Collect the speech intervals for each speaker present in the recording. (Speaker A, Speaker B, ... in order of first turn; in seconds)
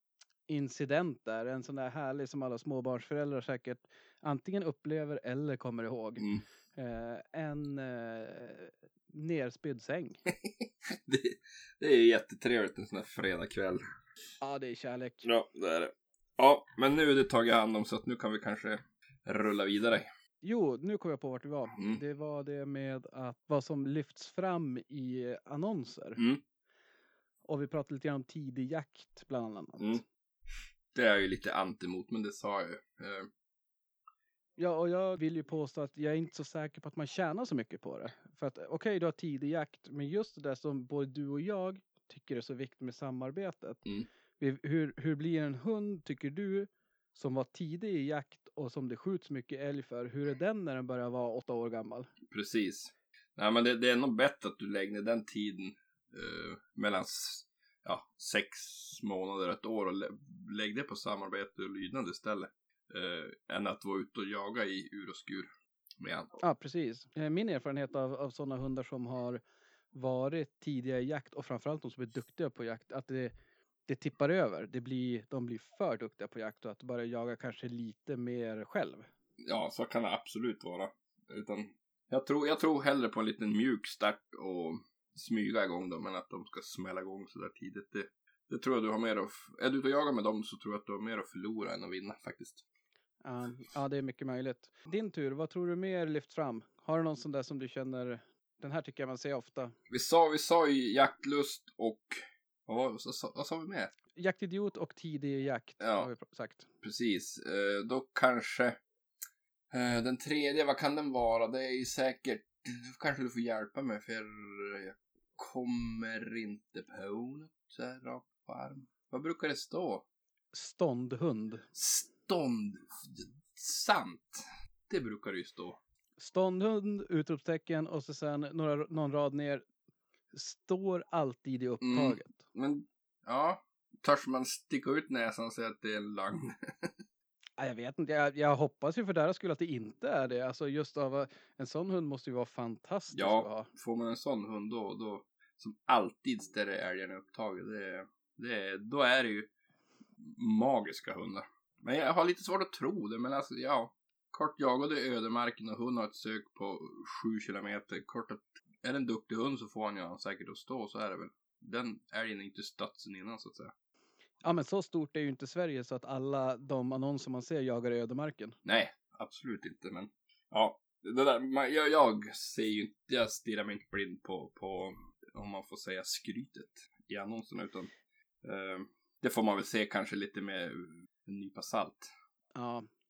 Speaker A: 0.5-10.2, 14.4-15.3, 20.4-26.2, 27.4-30.0, 34.6-43.8, 44.4-52.1, 66.4-69.4, 69.9-73.3, 73.9-79.1, 93.2-99.8, 104.2-106.7, 120.5-121.6, 126.2-129.7, 130.3-132.4, 137.6-143.7, 164.4-168.6, 182.6-182.9
Speaker B: 6.2-6.5, 10.3-13.8, 15.2-20.1, 21.8-22.0, 26.2-26.4, 30.9-33.3, 52.3-66.4, 79.4-92.6, 99.9-103.9, 105.8-106.1, 106.8-108.8, 109.7-120.1, 121.8-125.8, 131.8-137.0, 143.1-149.5, 150.2-163.7, 168.7-177.9, 178.4-182.1